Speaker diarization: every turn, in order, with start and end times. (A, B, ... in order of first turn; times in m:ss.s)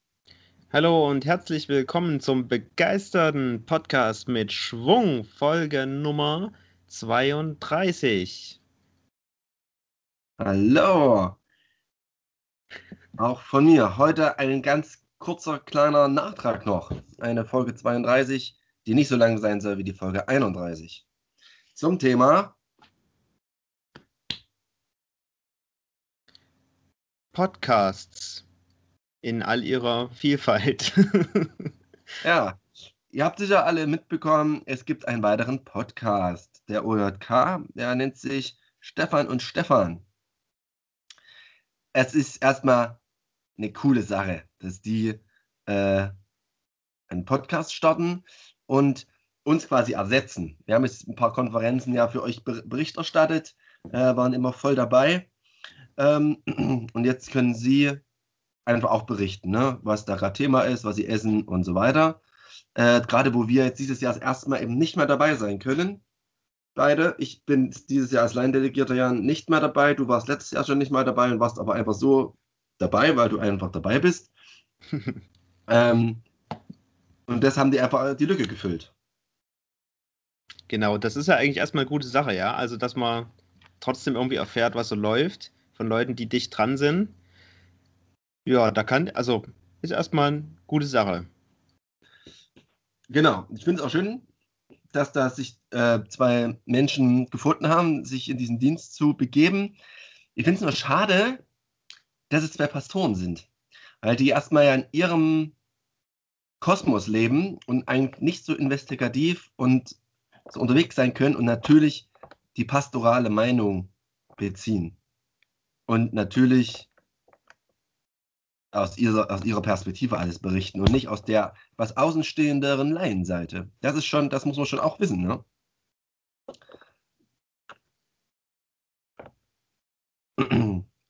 0:00.7-0:08.6 A
0:10.4-0:11.4 B
0:13.2-0:21.0 B
0:21.7-0:22.6 B
0:27.3-0:28.4 A
0:29.2-0:31.5 A
0:32.2-0:40.0 B
0:41.9-0:43.0 B
0:43.6-0:46.1 B
0:47.1-0:55.3 B
0:56.0-0:58.0 B
0:58.6-1:02.2 B
1:02.8-1:06.0 B
1:06.8-1:14.3 B
1:15.7-1:16.2 B
1:17.3-1:18.9 B
1:20.7-1:27.1 A
1:28.4-1:31.3 A
1:33.1-1:34.2 B
1:34.9-1:39.8 B
1:40.4-1:41.4 B
1:42.3-1:43.5 B
1:44.0-1:45.5 B
1:46.6-1:50.0 B
1:50.5-1:55.0 B
1:55.9-1:56.9 B
1:58.7-2:05.4 B
2:10.4-2:10.8 B